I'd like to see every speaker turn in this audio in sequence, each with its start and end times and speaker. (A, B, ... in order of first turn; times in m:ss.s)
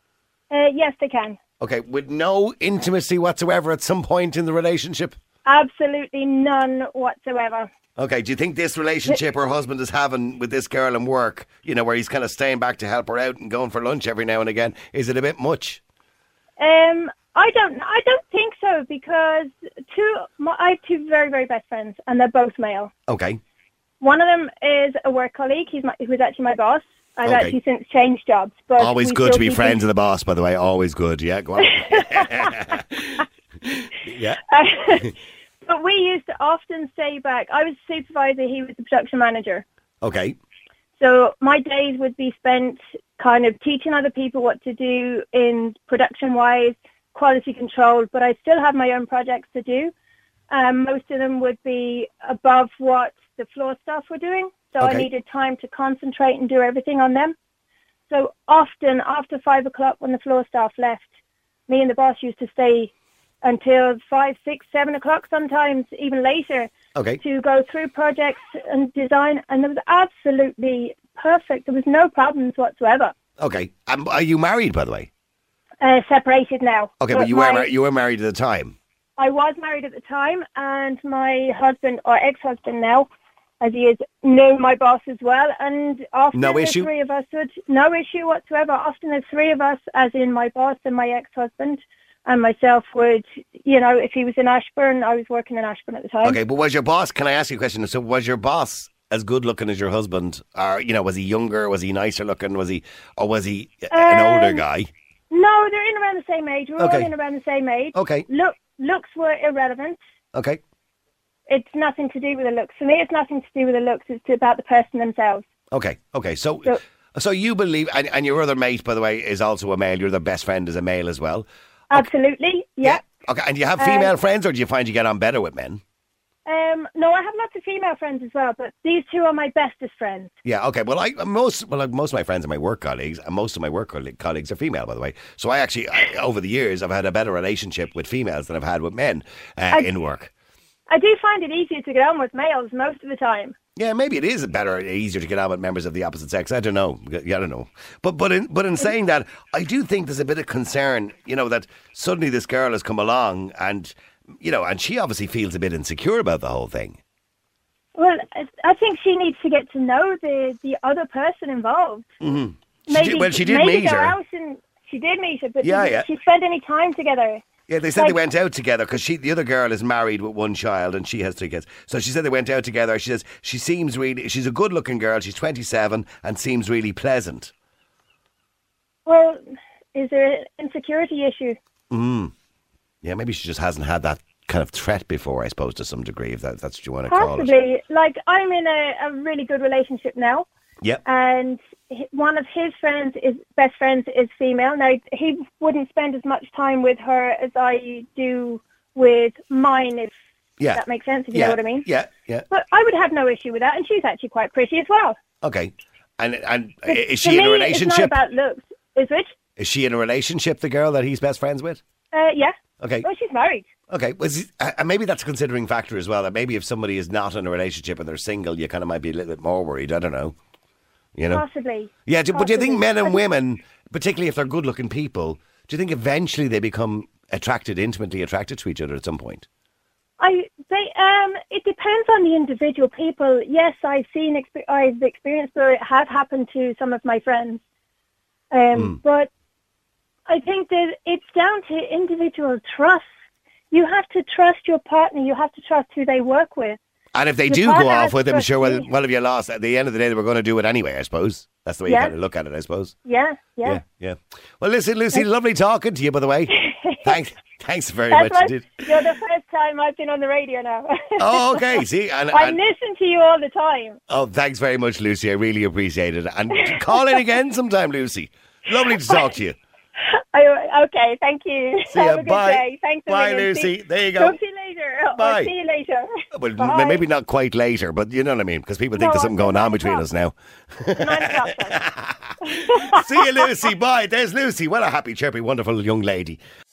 0:00.5-0:01.4 A
0:01.6-0:05.2 B
0:05.4-0:07.7 A
0:08.0-0:15.8 B
0:16.6-0:22.9 A
0:23.1-0:23.4 B
0:24.0-0:29.8 A
0:27.2-0:27.6 B
0:28.8-0:33.0 B
0:31.8-0:32.5 A
0:34.0-0:35.1 B
0:34.5-0:35.1 A
0:35.6-0:39.6 A
0:40.0-0:40.4 B
0:41.0-0:49.9 A
0:50.5-0:57.4 A
0:54.8-0:55.1 B
0:58.1-1:01.1 A
1:01.7-1:13.1 A
1:06.9-1:07.2 B
1:13.4-1:15.1 B
1:15.8-1:17.7 A
1:17.0-1:18.8 B
1:19.2-1:23.1 A
1:23.6-1:36.4 A
1:26.3-1:26.9 B
1:36.2-1:44.9 B
1:43.9-1:44.6 A
1:45.3-1:50.0 A
1:46.8-1:47.1 B
1:47.9-1:48.3 B
1:50.3-1:50.6 B
1:51.5-1:55.4 A
1:55.7-2:02.1 B
2:01.9-2:03.0 A
2:02.8-2:05.8 B
2:03.8-2:04.1 A
2:06.4-2:10.3 A
2:10.4-2:20.3 B
2:20.9-2:23.6 A
2:23.8-2:37.0 B
2:37.9-2:42.1 A
2:42.2-2:44.2 B
2:42.9-2:47.4 A
2:45.6-2:46.1 B
2:47.7-2:57.5 B
2:59.0-2:59.4 A
2:59.9-3:01.6 A
3:01.9-3:02.3 B
3:03.0-3:07.5 B
3:07.1-3:10.5 A
3:11.0-3:20.1 A
3:20.6-3:22.5 B
3:20.7-3:21.9 A
3:22.5-3:25.2 A
3:25.4-3:28.2 B
3:27.1-3:29.3 A
3:29.6-3:31.8 B
3:32.1-3:33.7 A
3:32.8-3:33.1 B
3:33.9-3:40.4 B
3:41.2-3:41.4 B
3:41.3-3:43.2 A
3:42.0-3:49.5 B
3:50.2-3:57.6 A
3:58.5-3:59.3 A
4:00.3-4:03.1 A
4:03.7-4:06.8 A
4:07.1-4:12.9 B
4:07.5-4:08.9 A
4:11.9-4:12.1 A
4:13.0-4:13.8 A
4:13.6-4:19.0 B
4:16.5-4:17.2 A
4:18.1-4:24.0 A
4:21.2-4:22.6 B
4:24.1-4:29.6 B
4:26.6-4:27.2 A
4:30.1-4:37.0 A
4:31.9-4:34.4 B
4:35.1-4:35.5 B
4:36.3-4:46.4 B
4:38.9-4:40.0 A
4:41.0-4:41.8 A
4:42.4-4:43.0 A